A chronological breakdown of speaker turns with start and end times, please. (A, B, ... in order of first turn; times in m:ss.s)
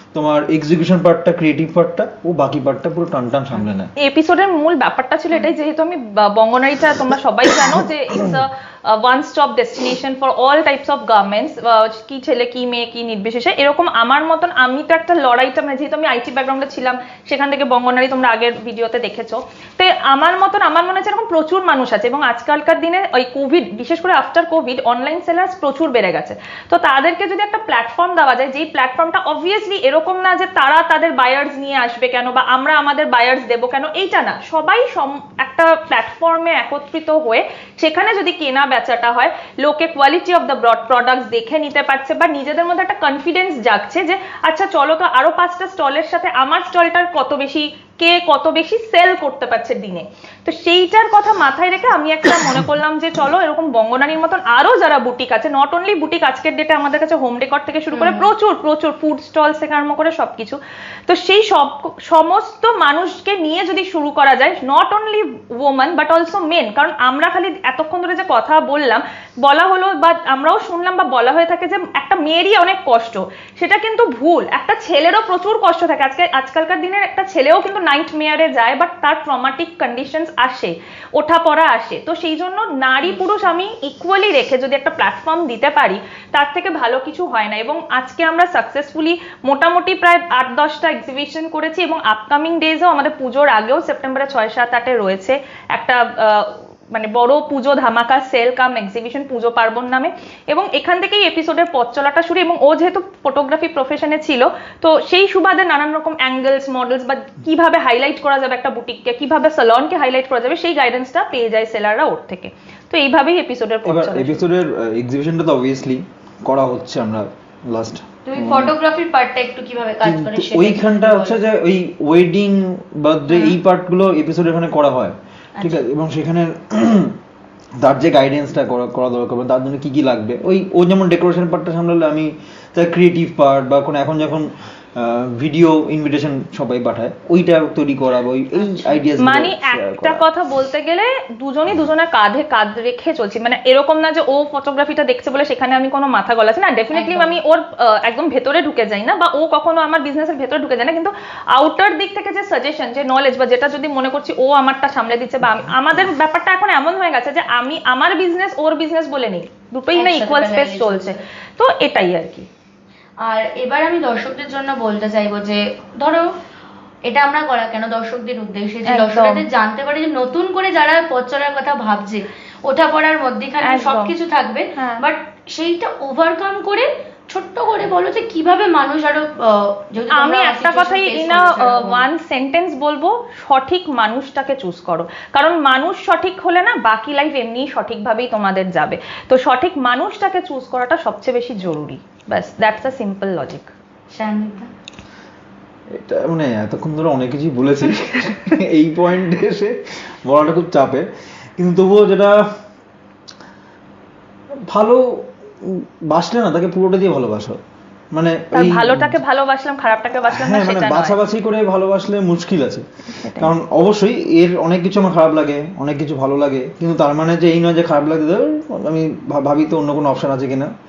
0:00.1-0:03.9 A
0:04.0-1:54.4 B
0:57.9-0:58.3 C
1:53.9-1:58.7 A
1:58.3-2:01.4 C
2:00.0-2:07.2 A
2:03.3-2:03.6 C
2:05.6-2:05.9 C
2:07.8-2:20.3 A
2:18.6-2:19.0 C
2:19.2-2:42.5 B
2:26.9-2:27.4 C
2:40.0-2:41.2 C
2:43.2-2:46.3 C
2:47.1-3:02.1 C
2:48.9-2:49.4 B
2:53.6-2:54.1 B
2:54.8-2:55.0 B
3:00.1-3:13.7 B
3:14.1-3:14.7 C
3:16.0-3:22.4 A
3:24.7-3:27.6 A
3:28.1-3:29.2 A
3:28.5-3:31.2 B
3:30.3-3:32.8 A
3:33.2-3:33.5 B
3:33.4-3:40.7 A